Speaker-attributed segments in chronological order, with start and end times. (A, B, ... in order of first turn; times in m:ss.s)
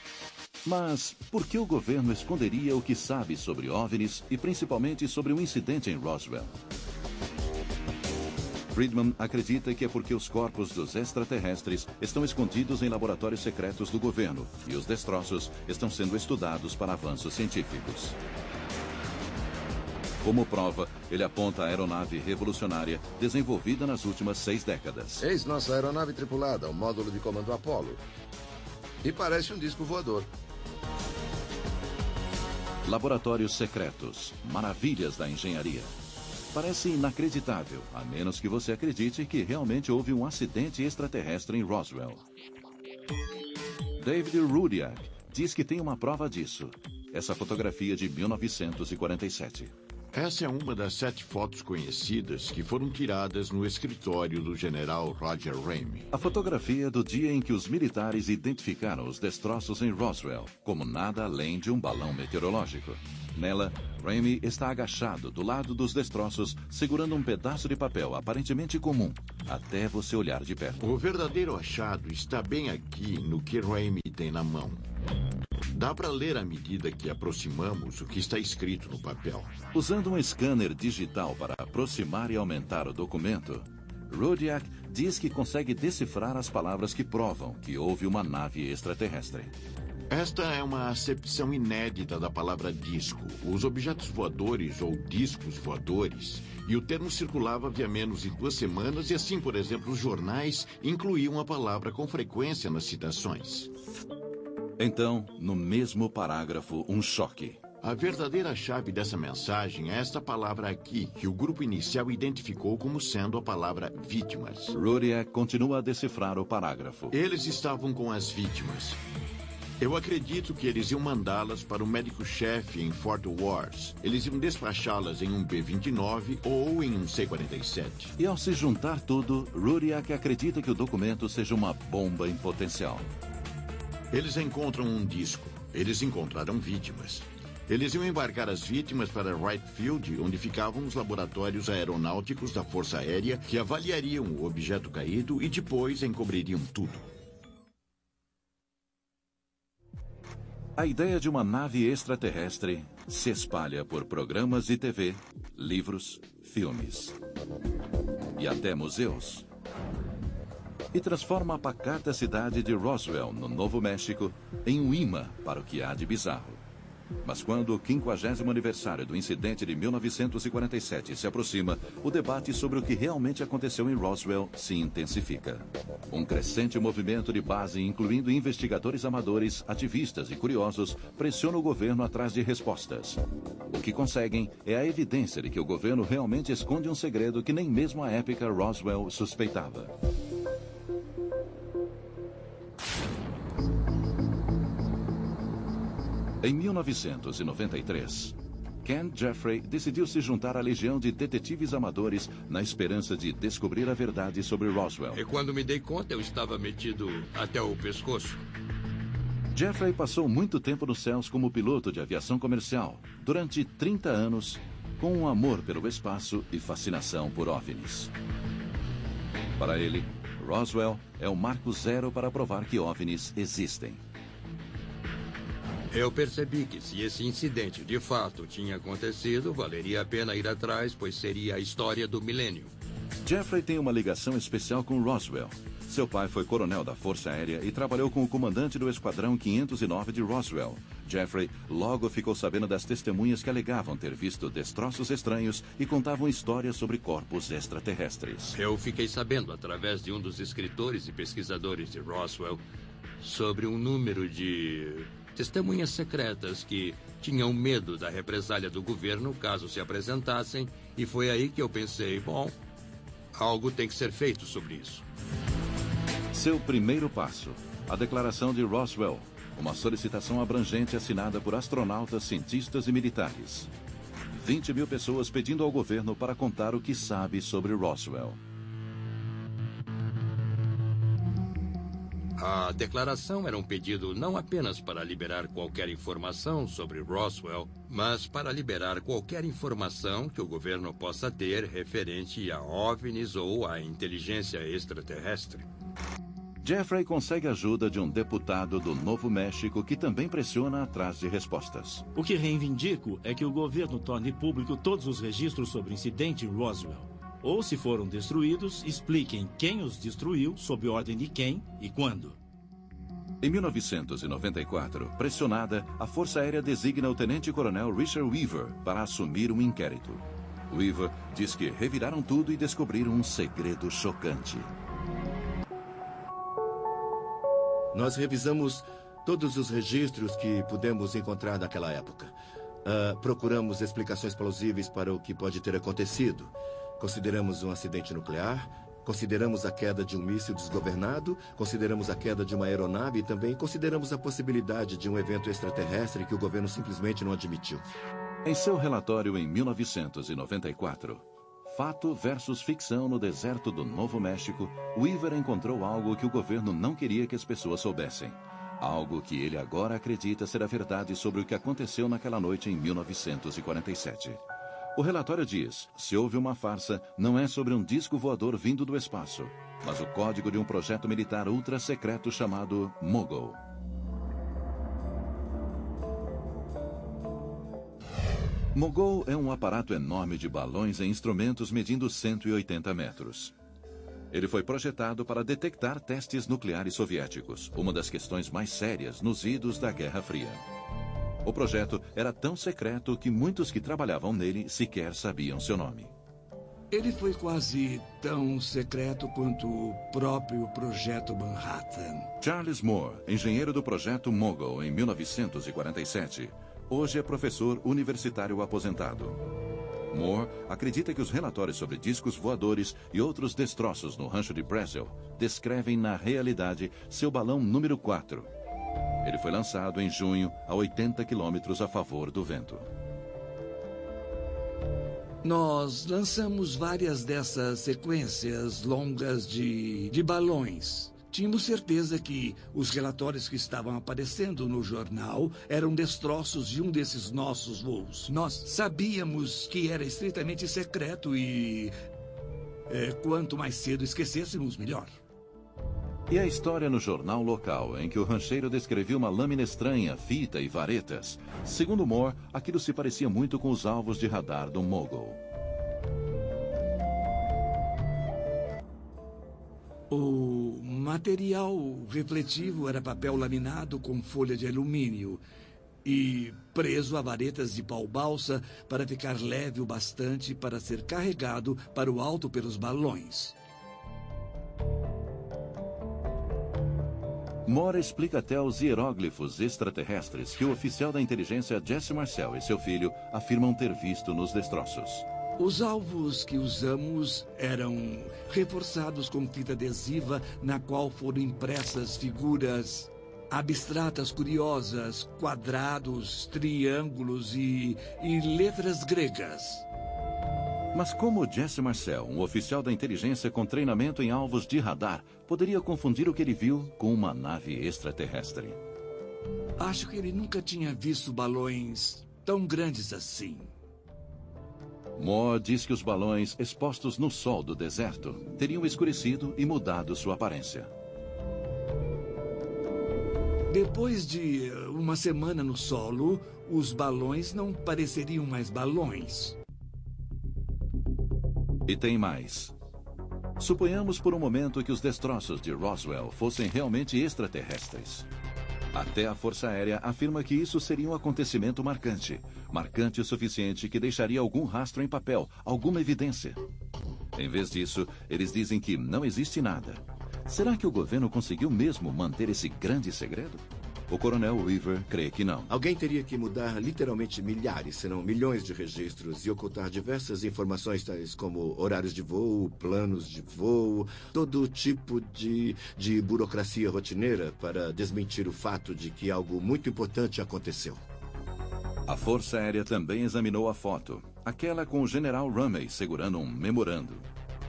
0:00.6-0:06.6 A
0:08.7-0:18.2 A
0:20.2-0:25.2 A
0:25.2-0:28.0 B
0:29.0-0:30.3 B
0:32.8-0:35.9 A
0:36.5-0:42.2 A
0:44.0-0:49.7 A
0:50.1-0:56.1 C
0:56.1-1:10.8 A
1:10.8-1:14.9 C
1:15.7-1:19.5 C
1:19.7-1:29.5 A
1:30.1-1:43.7 C
1:44.8-1:47.6 A
1:47.8-1:54.8 C
1:54.7-1:57.2 A
1:57.1-1:59.0 C
1:59.8-2:08.1 C
2:08.2-2:13.1 A
2:14.1-2:27.1 C
2:30.8-2:37.2 A
2:38.4-2:39.4 A
2:40.9-2:46.6 A
2:47.2-3:09.9 A
3:16.4-3:25.2 A
3:25.1-3:28.4 D
3:29.5-3:38.1 A
3:39.6-3:44.0 A
3:45.9-3:52.7 D
3:53.2-4:08.6 A
4:08.5-4:12.6 D
4:13.2-4:22.5 D
4:23.4-4:25.1 D
4:26.3-4:33.7 A
4:34.3-4:38.4 A
4:42.4-4:55.7 D
4:56.6-5:02.1 A
5:02.2-5:12.4 E
5:13.4-5:24.7 A
5:27.9-5:32.3 F
5:32.8-5:47.8 F
5:48.4-6:04.4 A
6:05.0-6:13.6 A
6:18.7-6:23.5 A
6:24.3-6:30.6 A
6:31.4-6:36.1 A
6:36.9-6:42.3 G
6:42.4-6:49.4 A
6:50.1-6:58.5 A
6:59.2-7:02.9 A
7:05.4-7:21.9 G
7:22.9-7:25.2 G
7:26.3-7:35.4 A
7:40.1-7:45.4 G
7:46.0-7:53.6 G
7:57.7-8:05.3 A
8:05.6-8:19.8 G
8:20.9-8:28.8 A
8:29.8-8:33.7 G
8:35.2-8:40.9 A
8:43.7-8:49.6 G
8:51.9-8:52.8 A
8:53.6-8:58.3 A
8:58.9-9:06.6 A
9:07.4-9:15.7 A
9:15.7-9:31.0 F
9:32.1-9:37.3 A